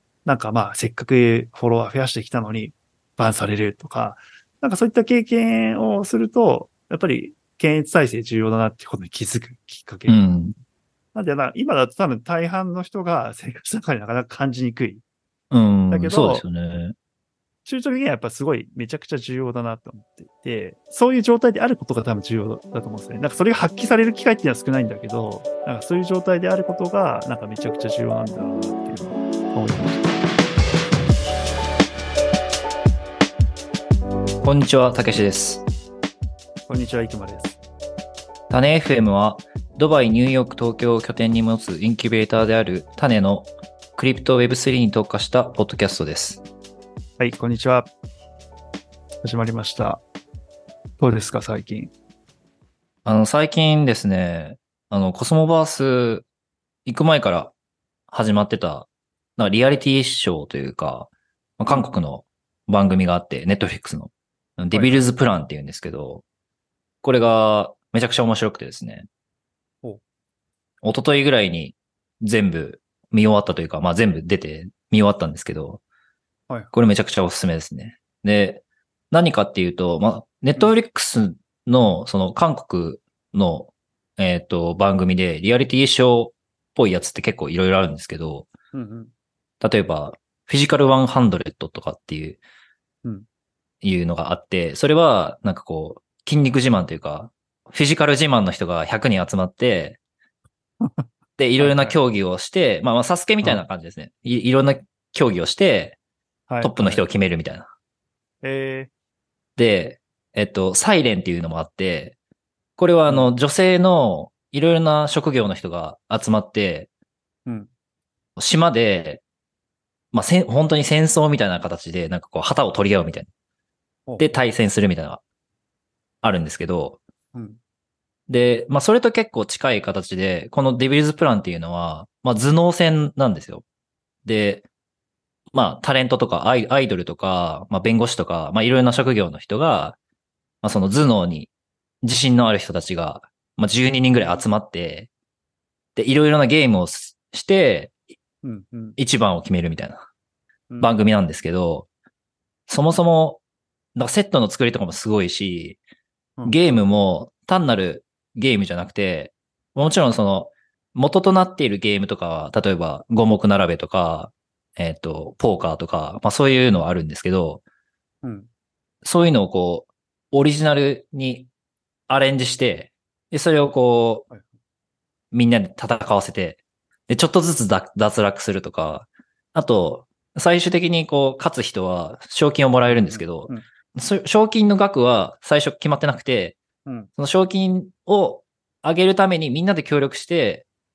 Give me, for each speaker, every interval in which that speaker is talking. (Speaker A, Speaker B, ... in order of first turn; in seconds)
Speaker A: 0.2-10.2, 11.1-15.0, 15.9-16.4, 17.6-30.0, 36.7-37.6, 47.2-47.9, 49.2-50.0, 51.0-51.9, 61.7-61.9, 64.7-65.0, 88.7-89.1, 101.6-102.0, 106.5-107.0, 108.4-108.9, 113.1-113.3, 127.3-127.6, 148.4-149.0, 150.7-150.9, 168.2-168.5, 182.8-183.6
Speaker B: 10.1-10.5, 15.5-16.9, 34.4-35.6, 38.5-46.4, 53.0-56.2, 56.9-57.5, 58.1-66.2, 67.0-69.1, 70.8-75.8, 76.7-88.5, 89.6-92.4, 93.8-100.0, 101.4-106.0, 106.6-107.7, 109.5-112.1, 112.8-116.9, 118.4-119.2, 120.1-123.3, 124.2-125.2, 126.2-127.0, 128.3-133.6, 134.2-134.6, 135.5-140.0, 140.6-141.5, 142.0-145.1, 145.9-147.9, 149.0-150.0, 150.8-151.9, 152.7-153.4, 153.9-155.8, 156.4-167.6, 169.0-171.5, 172.1-174.3, 175.3-186.5, 187.2-190.6